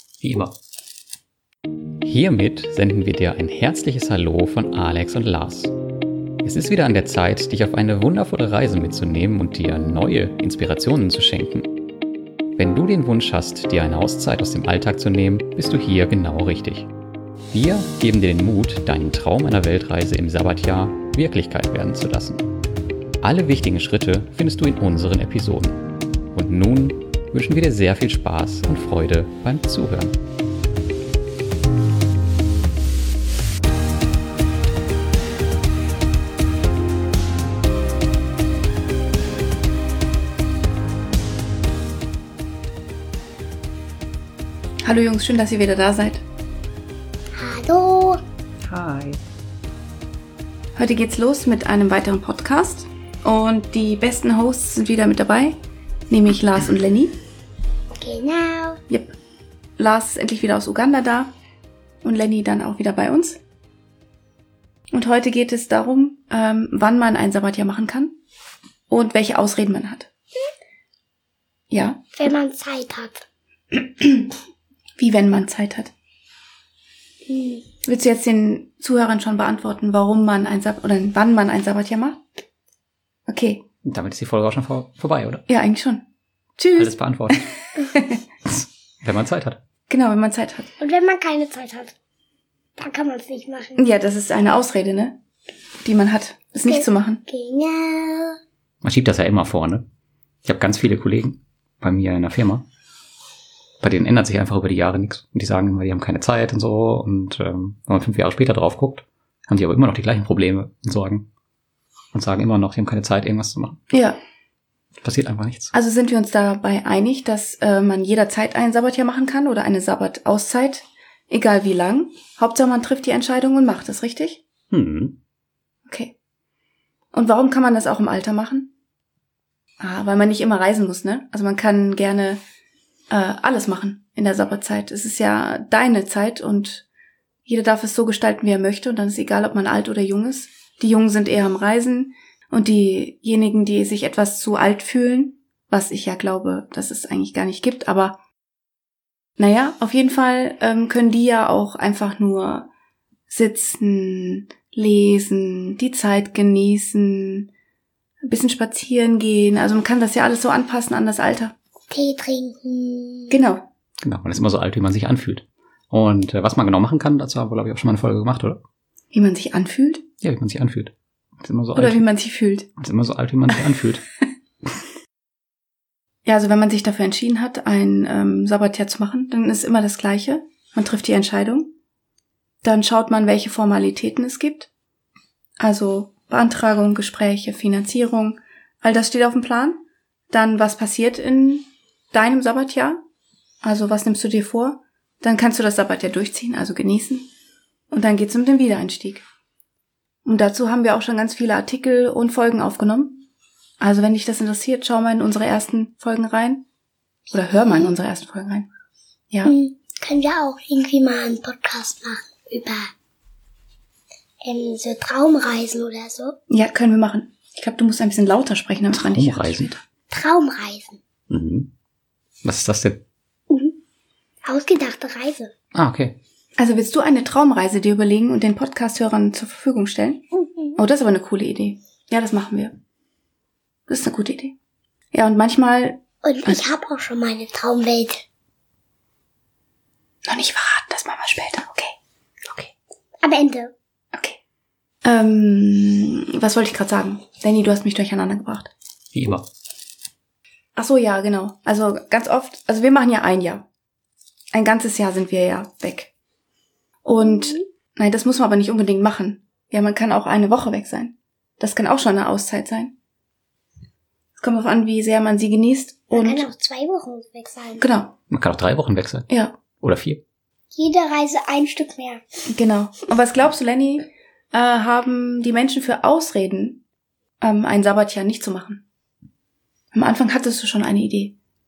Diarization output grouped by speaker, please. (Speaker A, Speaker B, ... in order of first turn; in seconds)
Speaker A: 0.2-0.5, 2.0-5.7, 6.4-11.8, 12.5-16.9, 17.5-22.4, 23.2-30.2, 48.6-49.2, 83.8-85.4, 86.8-87.5, 88.4-89.6, 98.8-99.8, 100.4-102.6, 103.8-111.3, 112.1-113.8, 115.0-115.7, 124.7-125.2, 164.0-168.6, 170.2-172.1, 172.8-174.0, 218.9-219.7, 221.3-221.7, 222.4-223.0, 225.7-226.2, 249.1-249.4, 268.3-269.3, 269.8-270.2
Speaker B: 44.8-46.2, 50.8-55.6, 56.1-57.1, 58.9-59.1, 59.8-61.3, 62.0-63.4, 64.9-68.2, 68.9-70.1, 71.7-72.2, 73.7-74.3, 75.0-75.9, 77.8-82.2, 83.3-83.6, 85.5-86.0, 86.6-86.9, 87.8-88.2, 89.9-90.7, 93.8-95.2, 95.8-97.2, 113.9-114.2, 115.7-124.4, 125.9-126.1, 127.1-128.7, 129.8-132.4, 133.1-136.8, 137.4-148.2, 149.4-152.7, 153.3-157.5, 158.2-161.5, 163.3-163.6, 169.1-170.0, 171.8-172.7, 176.2-181.7, 182.6-184.7, 185.6-193.0, 193.6-197.3, 197.9-199.2, 200.2-203.2, 203.8-206.6, 207.3-208.7, 216.5-219.8, 226.6-232.7, 233.9-234.5, 235.1-236.6, 240.2-241.9, 242.5-242.7, 245.0-248.7, 250.8-253.7, 254.5-256.1, 257.0-262.9, 264.4-266.5, 267.8-268.1, 269.3-269.6, 272.5-276.8, 277.4-278.8, 279.9-281.4
Speaker C: 47.3-48.2, 58.0-58.8, 72.2-73.2, 77.3-77.6, 90.8-91.9, 92.8-93.8, 96.7-98.4, 161.9-163.4, 209.4-212.9, 214.4-216.3, 220.1-221.0, 223.5-223.8, 224.4-225.5, 236.2-238.2, 243.2-243.7, 266.1-267.8, 270.7-272.2